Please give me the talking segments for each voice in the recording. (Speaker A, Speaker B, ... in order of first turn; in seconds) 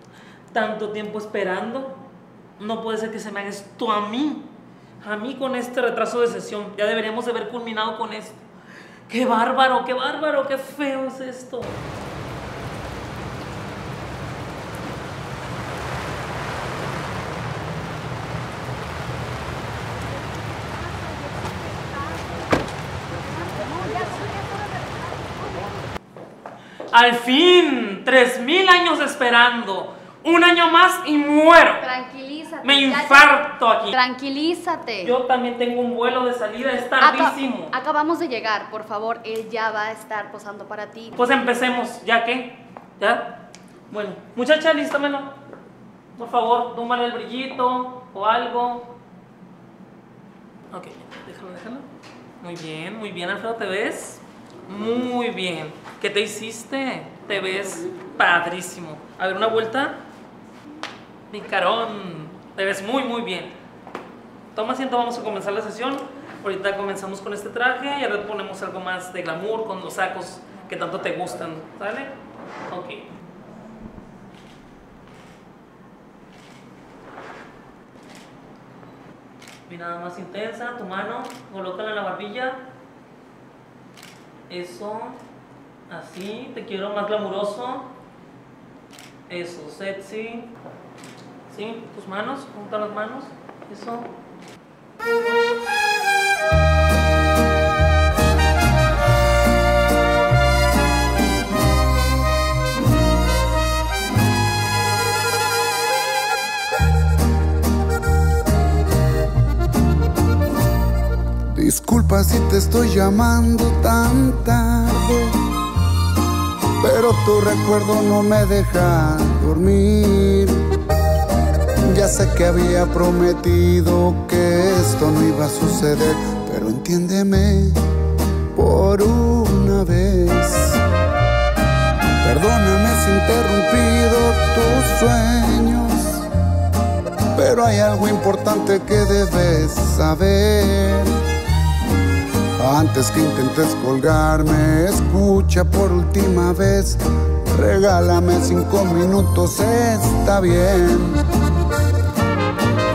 Speaker A: 0.5-2.0, 2.6-4.5, 5.0-8.4, 9.1-11.8, 26.9-31.9, 32.6-34.0, 35.0-37.7, 41.2-45.4, 46.1-48.9, 50.7-51.9, 52.4-60.0, 61.3-63.5, 64.5-72.1, 72.7-73.1, 79.7-82.6, 84.5-85.2, 85.9-87.9, 89.3-90.5, 91.5-94.1
Speaker B: 23.8-24.9, 31.8-35.1, 37.0-41.2
Speaker C: 111.5-115.4, 116.8-120.7, 121.8-127.8, 128.5-130.8, 132.2-136.3, 137.3-141.3, 142.6-151.2